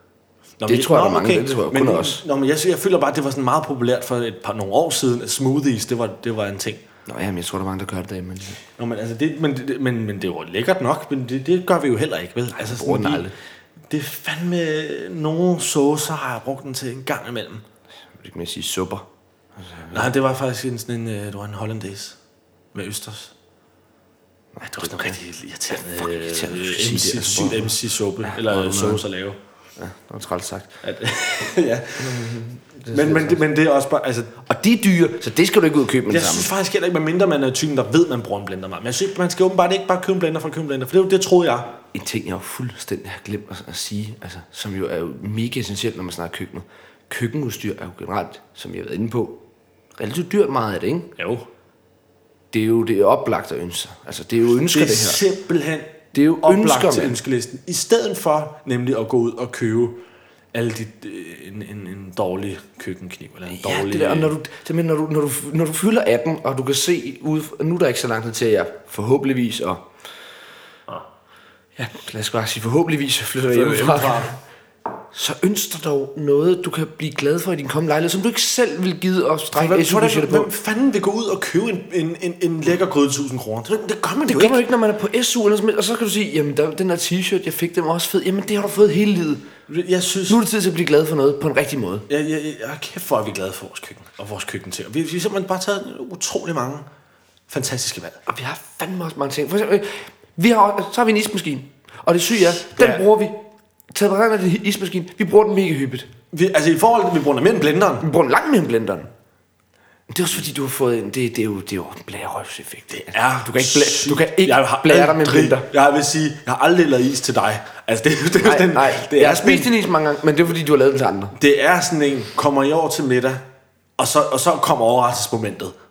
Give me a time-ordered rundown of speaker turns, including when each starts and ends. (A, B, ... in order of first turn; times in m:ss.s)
0:00.6-0:06.8 A
0:00.6-0:02.2 B
0:07.0-0:08.6 B
0:08.8-0:13.3 A
0:12.6-0:13.3 B
0:13.9-0:17.6 A
0:18.1-0:20.1 B
0:19.9-0:22.2 A
0:22.7-0:23.3 A
0:24.6-0:25.2 B
0:24.6-0:29.4 A
0:25.7-0:29.0 B
0:29.8-0:30.8 B
0:30.8-0:34.4 A
0:32.0-0:33.4 B
0:34.4-0:36.5 B
0:36.1-0:41.7 A
0:41.9-0:49.4 B
0:50.0-0:51.1 B
0:51.2-0:51.5 A
0:52.5-0:55.2 B
0:54.6-1:00.0 A
0:56.1-0:57.2 B
1:00.5-1:04.3 A
1:03.5-1:09.9 B
1:11.8-1:14.3 B
1:13.5-1:14.4 A
1:15.1-1:20.5 B
1:19.5-1:24.6 A
1:24.3-1:29.4 B
1:29.7-1:30.4 A
1:30.3-1:32.0 B
1:32.1-1:36.9 A
1:37.5-1:38.2 A
1:38.3-1:46.1 B
1:42.8-1:43.0 A
1:46.3-1:48.1 A
1:48.0-1:49.1 B
1:50.1-1:55.7 B
1:52.9-1:59.7 A
1:58.4-2:01.4 B
2:01.3-2:03.4 A
2:04.0-2:05.7 A